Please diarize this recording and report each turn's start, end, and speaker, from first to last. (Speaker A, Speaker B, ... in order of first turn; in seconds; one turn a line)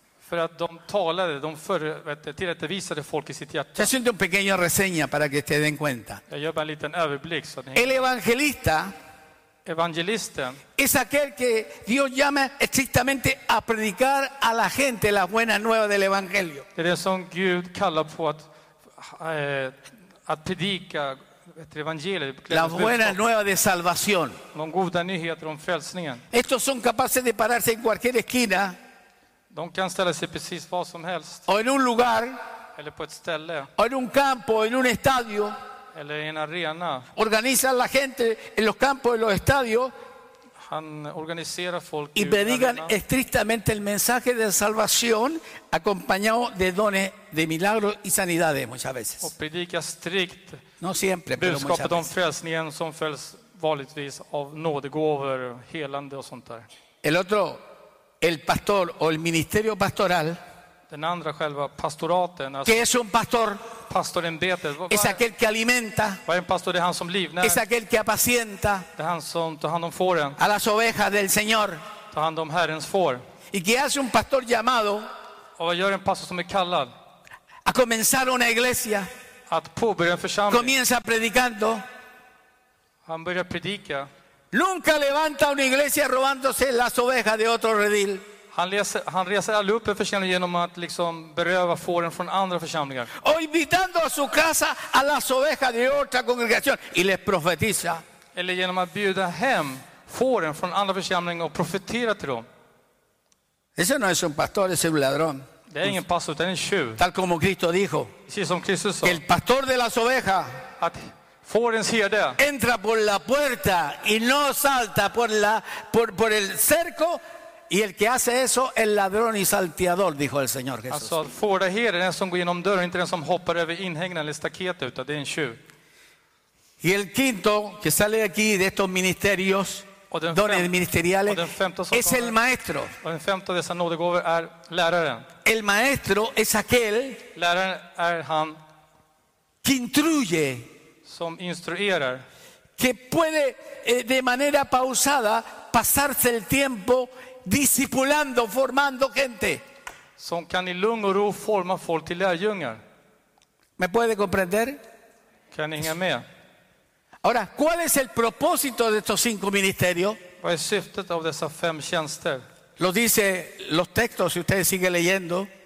Speaker A: 0.2-3.9
Speaker B: 3.8-6.2
Speaker A: 6.3-8.0
Speaker B: 7.7-8.9
Speaker A: 9.6-10.6
Speaker B: 10.8-16.6
Speaker A: 16.8-23.2
Speaker B: 22.5-24.4
Speaker A: 24.5-26.2
Speaker B: 26.3-28.8
Speaker A: 29.5-31.4
Speaker B: 31.5-32.4
Speaker A: 32.7-33.7
Speaker B: 33.8-35.5
Speaker A: 35.9-37.1
Speaker B: 37.1-39.9
Speaker A: 40.6-42.9
Speaker B: 42.1-49.3
Speaker A: 49.2-50.6
Speaker B: 50.8-52.1
Speaker A: 51.4-56.7
Speaker B: 57.0-57.6
Speaker B: 58.2-60.4
Speaker A: 60.9-62.8
Speaker B: 62.6-63.6
Speaker A: 63.9-65.2
Speaker B: 64.9-66.2
Speaker A: 66.2-67.6
Speaker B: 67.4-68.8
Speaker A: 69.0-70.4
Speaker B: 70.4-71.8
Speaker A: 72.1-73.2
Speaker B: 73.5-75.0
Speaker A: 75.6-76.9
Speaker B: 77.7-79.1
Speaker A: 79.5-80.7
Speaker B: 80.5-81.8
Speaker A: 83.0-84.1
Speaker B: 84.5-88.2
Speaker A: 88.5-93.1
Speaker B: 93.1-98.0
Speaker A: 98.3-102.5
Speaker B: 103.8-105.4
Speaker A: 105.7-107.0
Speaker B: 107.0-108.1
Speaker A: 108.3-109.2
Speaker B: 109.0-110.5
Speaker A: 110.8-112.4
Speaker B: 112.4-121.2
Speaker A: 120.9-125.6
Speaker B: 126.8-132.9
Speaker A: 130.1-130.7
Speaker A: 131.2-132.3
Speaker A: 133.0-135.3
Speaker B: 135.4-137.2
Speaker A: 137.3-138.6
Speaker B: 139.6-140.7
Speaker A: 141.0-142.2
Speaker B: 142.8-149.6
Speaker A: 150.2-152.8
Speaker B: 153.8-154.8
Speaker A: 155.5-156.2
Speaker B: 157.2-160.2
Speaker A: 160.4-162.4
Speaker B: 162.8-165.5